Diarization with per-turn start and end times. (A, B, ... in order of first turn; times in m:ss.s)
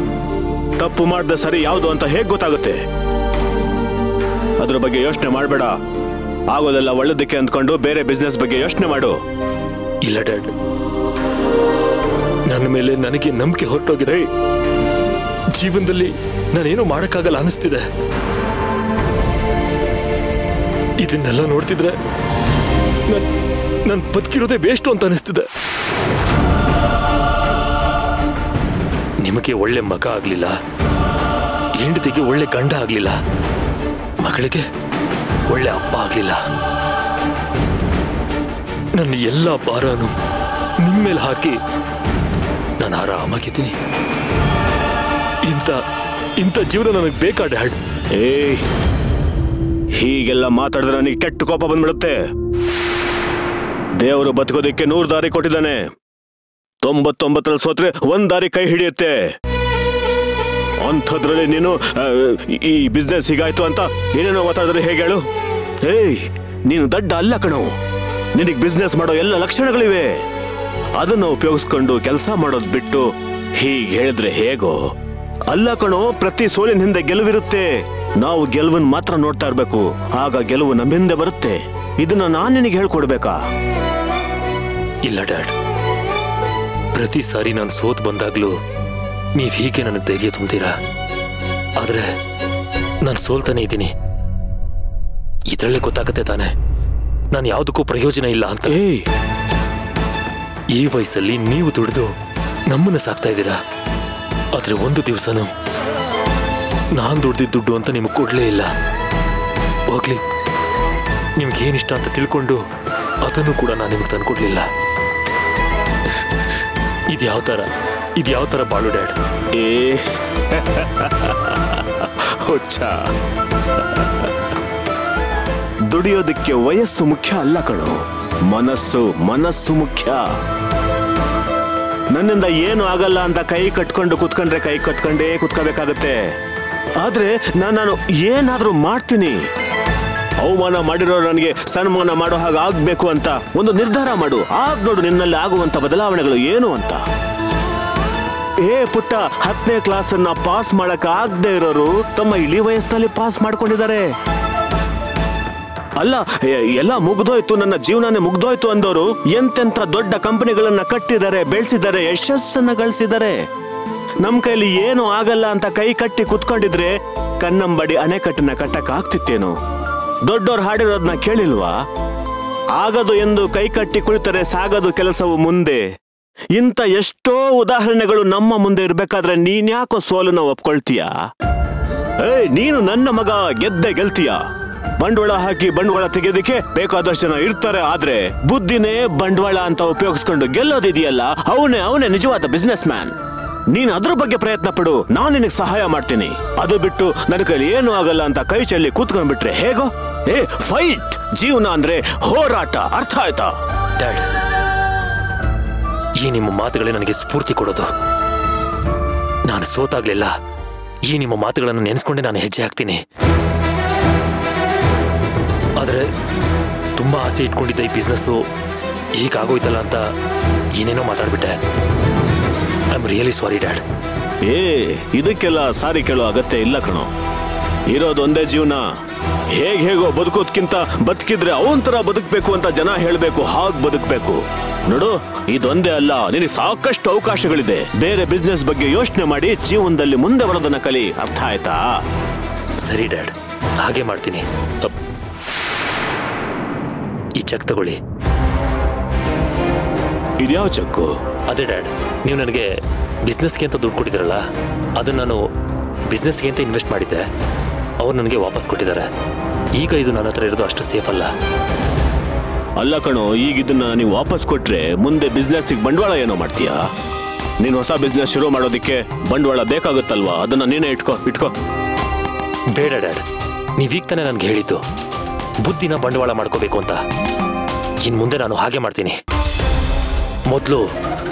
0:00.8-0:02.8 A
0:04.6-0:05.7 A
0:06.5-0:09.1 A
0:10.0-0:10.5 B
0:12.5-0:14.2 B
0:15.6-0:17.8 B
0:21.0-0:21.9 B
0:23.9-0:25.4 B
0:29.2-0:30.5 B
0:31.8-0:33.1 B
0:34.2-0:34.6 B
0:35.5-0:36.4 B
0:38.9-0:40.1 B
0:40.8-0:41.6 B
0:42.8-0:43.7 B
0:45.5-0:45.8 B
0:46.4-0:47.8 B
0:48.2-0:48.6 A
0:50.0-0:52.2 A
0:54.0-0:55.8 A
0:56.8-0:59.2 A
1:00.8-1:05.2 A
1:05.8-1:07.7 A
1:08.4-1:10.1 A
1:11.0-1:13.1 A
1:13.6-1:14.8 A
1:15.5-1:17.7 A
1:18.2-1:23.3 A
1:25.0-1:25.5 B
1:26.9-1:28.5 B
1:29.4-1:30.7 B
1:31.8-1:32.0 B
1:33.0-1:33.9 B
1:35.5-1:36.5 B
1:37.3-1:38.8 B
1:38.7-1:39.1 A
1:40.7-1:42.1 B
1:42.7-1:43.6 B
1:44.5-1:45.5 B
1:46.9-1:48.7 B
1:49.9-1:50.2 B
1:51.4-1:52.6 B
1:53.2-1:54.6 B
1:57.1-1:57.6 B
1:58.2-1:59.1 B
1:59.6-2:02.9 A
2:04.0-2:04.3 A
2:05.9-2:07.9 A
2:08.5-2:10.2 A
2:12.1-2:16.2 A
2:17.0-2:19.4 A
2:20.4-2:27.0 A
2:28.6-2:34.1 A
2:36.0-2:43.4 A
2:44.2-2:49.5 A
2:50.3-2:51.7 A
2:52.8-2:55.8 A
2:56.6-3:01.1 A
3:02.2-3:04.4 A
3:05.0-3:13.1 A
3:13.7-3:23.5 A
3:24.0-3:24.2 B
3:26.2-3:27.8 B
3:29.4-3:30.3 B
3:31.1-3:33.0 B
3:35.8-3:36.0 B
3:37.0-3:38.4 B
3:39.2-3:40.0 B
3:40.8-3:41.5 B
3:42.9-3:43.8 B
3:44.4-3:47.1 A
3:47.9-3:48.8 A
3:49.5-4:01.8 A
4:02.8-4:04.9 B
4:07.4-4:08.0 B
4:10.4-4:11.1 A
4:11.5-4:12.7 B
4:13.2-4:14.4 B
4:15.0-4:15.4 B
4:16.1-4:17.2 B
4:18.0-4:19.0 B
4:19.8-4:21.3 B
4:22.8-4:26.8 A
4:27.6-4:31.5 A
4:32.7-4:33.2 B
4:33.8-4:34.8 B
4:35.6-4:37.0 B
4:38.0-4:39.2 B
4:40.5-4:40.8 B